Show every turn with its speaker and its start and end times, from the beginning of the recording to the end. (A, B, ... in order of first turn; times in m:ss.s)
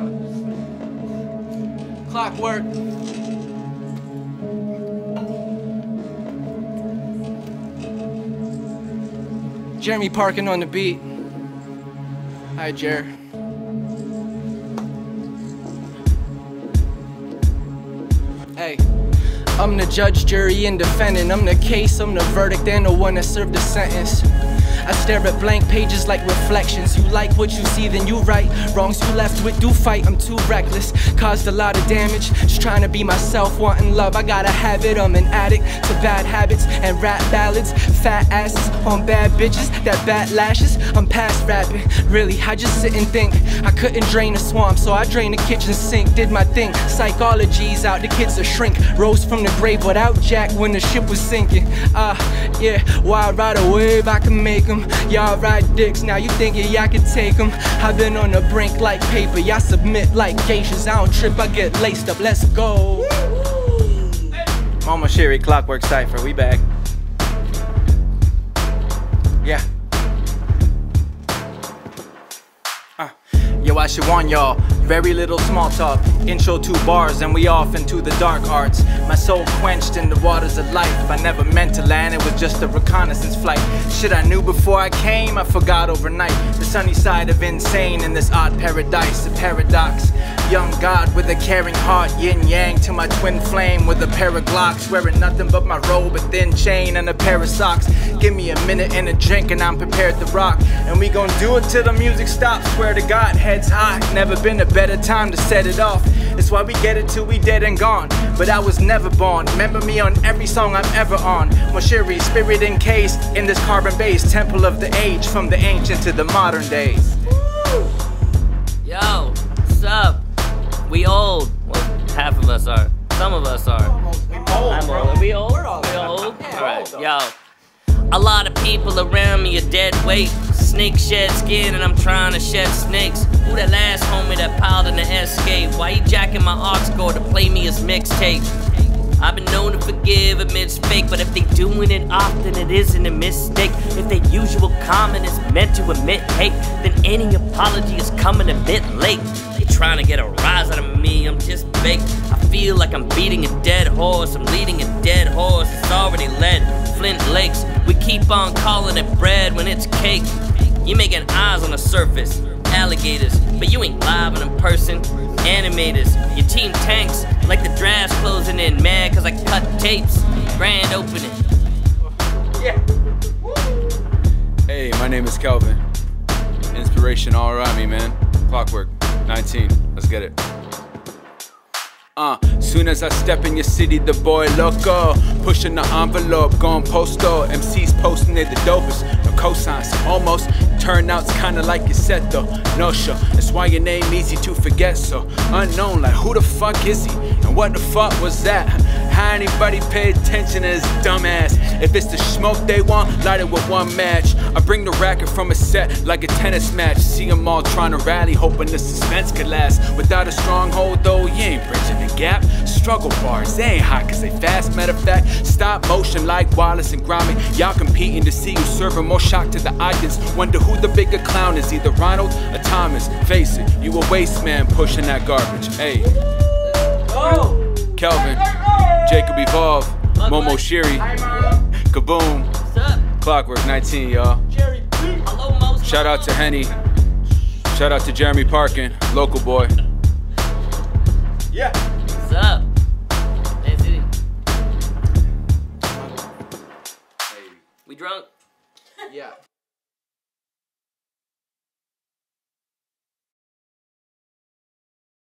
0:02.1-0:02.7 A
0:09.8-0:11.0 A
0:12.6-0:13.1 A
0:18.6-0:18.8 A
0:19.6-0:24.3 A
0:24.8-1:03.2 A
1:04.8-1:06.6 B
1:13.0-1:57.2 B
1:58.8-2:00.2 C
2:00.9-2:04.0 C
2:04.0-2:07.0 B
2:04.6-2:07.4 C
2:08.1-2:18.5 C
2:19.2-2:51.4 C
2:54.7-2:55.8 D
2:56.7-3:00.4 D
3:02.2-3:46.1 D
3:46.8-3:47.9 B
3:48.0-3:48.4 D
3:48.6-3:49.1 B
3:49.0-3:51.1 D
3:50.2-3:50.7 C
3:51.0-3:51.6 B
3:51.8-3:52.5 D
3:52.6-3:53.1 C
3:53.2-3:54.4 D
3:54.5-3:55.2 B
3:55.2-3:56.4 C
3:55.8-3:56.8 D
3:57.7-3:59.8 D
4:02.2-4:02.7 C
4:03.6-4:04.1 C
4:07.9-4:08.3 C